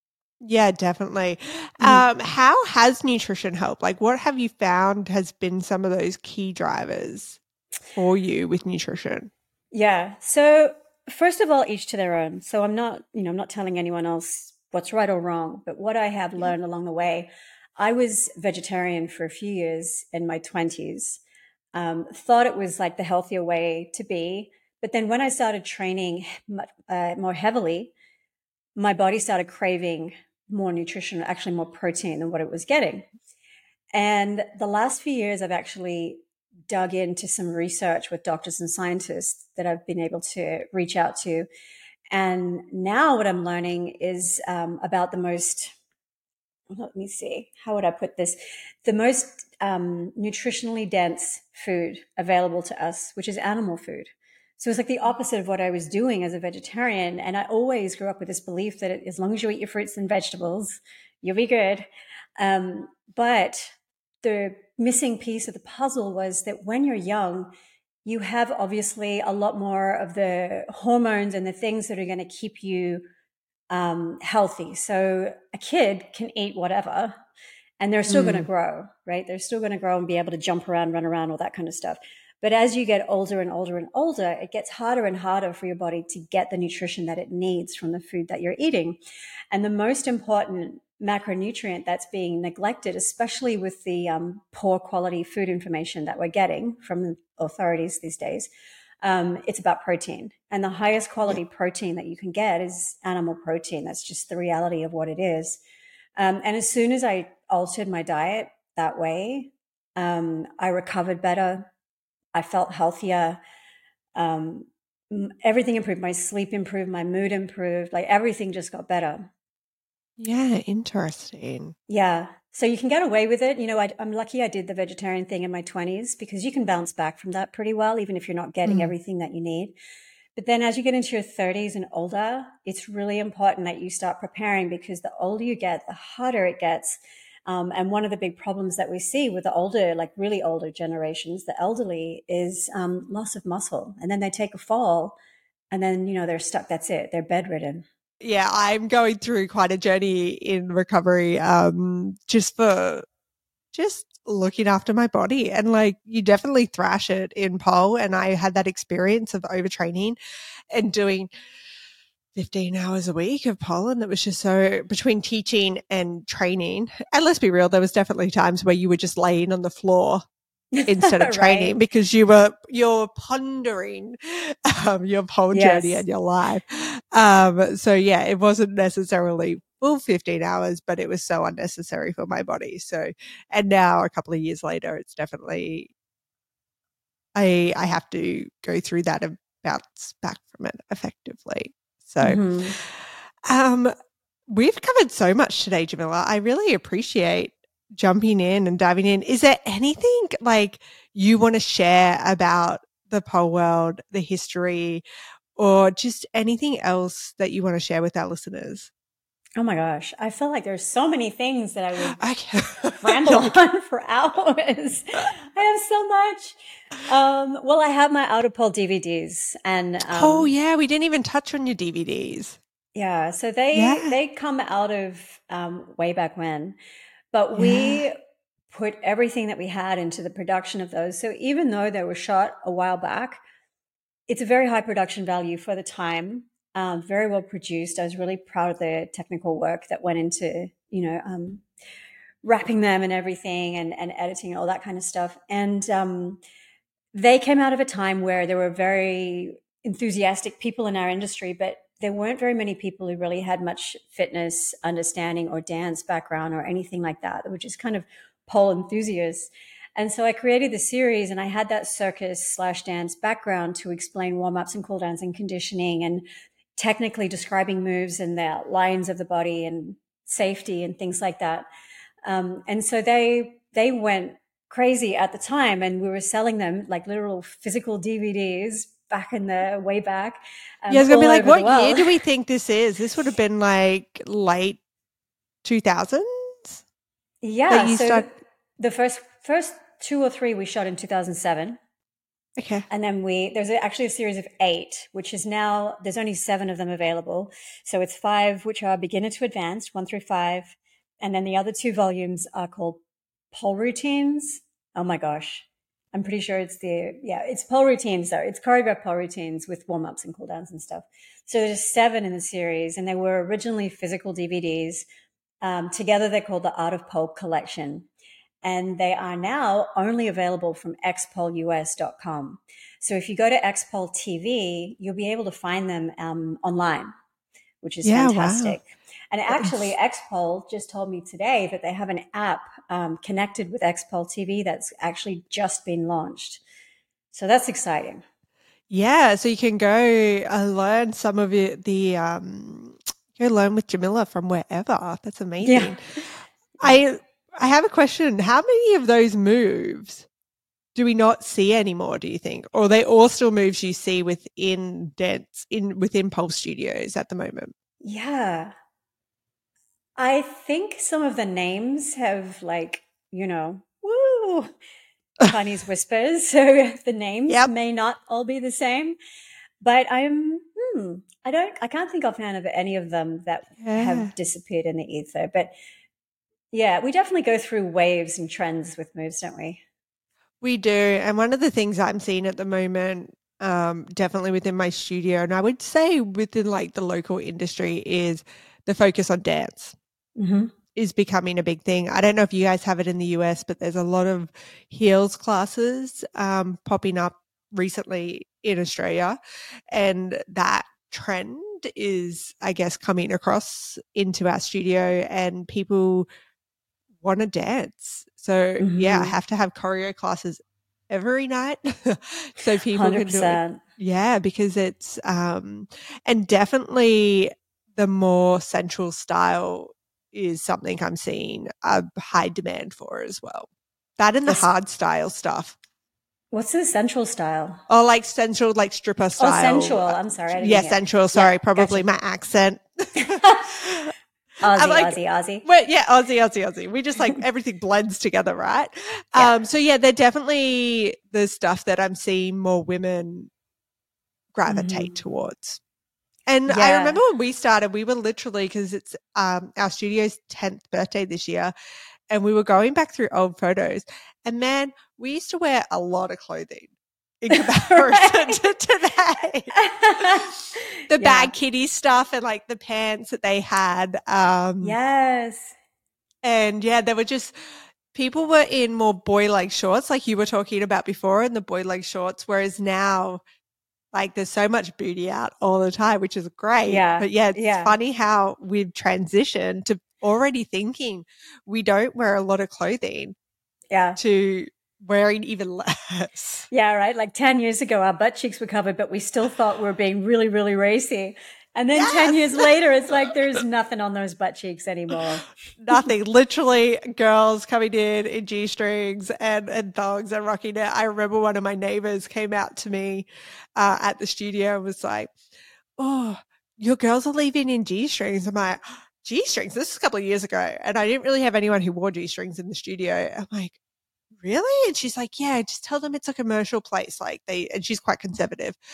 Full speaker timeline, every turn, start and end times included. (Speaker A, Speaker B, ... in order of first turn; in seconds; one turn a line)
Speaker A: 0.4-7.4
Speaker B: 1.8-2.0
Speaker A: 8.0-9.3
Speaker B: 9.7-21.2
Speaker B: 21.7-27.9
Speaker B: 28.8-33.1
Speaker B: 33.9-41.5
Speaker B: 42.1-45.7
Speaker B: 46.7-61.9
Speaker B: 62.4-67.5
Speaker B: 68.0-73.0
Speaker B: 73.7-77.1
Speaker B: 77.8-89.0
Speaker A: 78.1-78.5
Speaker B: 89.5-98.5
Speaker B: 99.0-105.6
Speaker B: 106.2-111.7
Speaker B: 112.3-113.4
Speaker B: 114.1-119.3
Speaker A: 120.2-121.7
Speaker B: 121.9-129.7
Speaker A: 128.6-128.9
Speaker B: 130.3-145.2
Speaker B: 145.7-147.8
Speaker A: 148.2-153.0
Speaker A: 153.7-160.2
Speaker A: 160.7-161.3
Speaker A: 162.3-170.2
Speaker B: 170.7-171.7
Speaker A: 170.8-185.9
Speaker B: 175.5-176.0
Speaker A: 187.3-193.9
Speaker B: 192.2-192.8
Speaker A: 194.5-205.0
Speaker A: 205.6-208.9
Speaker B: 209.6-212.2
Speaker A: 212.1-213.5
Speaker B: 213.0-220.5
Speaker A: 220.1-222.6
Speaker B: 222.9-226.8
Speaker A: 223.7-224.1
Speaker B: 227.3-228.2
Speaker A: 227.6-228.0
Speaker B: 228.7-233.4
Speaker B: 234.3-241.6
Speaker B: 242.4-246.4
Speaker B: 247.1-266.2
Speaker B: 266.8-271.6
Speaker B: 272.2-282.2
Speaker A: 280.9-284.8
Speaker A: 285.6-286.8
Speaker B: 287.4-288.3
Speaker A: 287.7-288.2
Speaker B: 288.8-291.8
Speaker A: 292.6-292.9
Speaker B: 292.9-303.0
Speaker B: 303.5-315.0
Speaker B: 315.6-318.1
Speaker B: 318.6-327.1
Speaker B: 327.8-336.6
Speaker A: 328.0-328.8
Speaker A: 329.5-329.8
Speaker B: 337.3-338.2
Speaker A: 338.9-346.0
Speaker B: 345.6-346.0
Speaker A: 346.8-350.3
Speaker A: 350.9-357.7
Speaker B: 358.0-358.7
Speaker B: 360.2-364.7
Speaker B: 365.4-369.2
Speaker B: 369.8-375.7
Speaker A: 373.8-374.3
Speaker B: 376.7-379.8
Speaker A: 380.6-389.9
Speaker B: 390.4-390.7
Speaker A: 390.9-399.4
Speaker A: 399.9-406.2
Speaker A: 407.2-425.8
Speaker B: 408.8-409.4
Speaker B: 412.9-413.8
Speaker B: 426.5-427.8
Speaker A: 427.9-434.1
Speaker B: 429.4-432.0
Speaker B: 433.2-433.6
Speaker B: 434.6-435.6
Speaker A: 434.7-443.5
Speaker A: 444.5-445.8
Speaker B: 444.6-445.2
Speaker A: 446.5-451.7
Speaker B: 446.7-447.2
Speaker A: 452.3-460.4
Speaker B: 457.5-458.6
Speaker B: 459.7-461.5
Speaker A: 461.1-464.9
Speaker B: 464.8-465.7
Speaker A: 466.4-467.5
Speaker A: 468.1-473.4
Speaker A: 474.1-483.3
Speaker B: 476.9-477.9
Speaker B: 483.9-484.2
Speaker A: 484.2-486.6
Speaker B: 486.7-496.1
Speaker A: 491.9-492.7
Speaker A: 495.8-505.3
Speaker A: 506.0-513.8
Speaker A: 514.4-518.8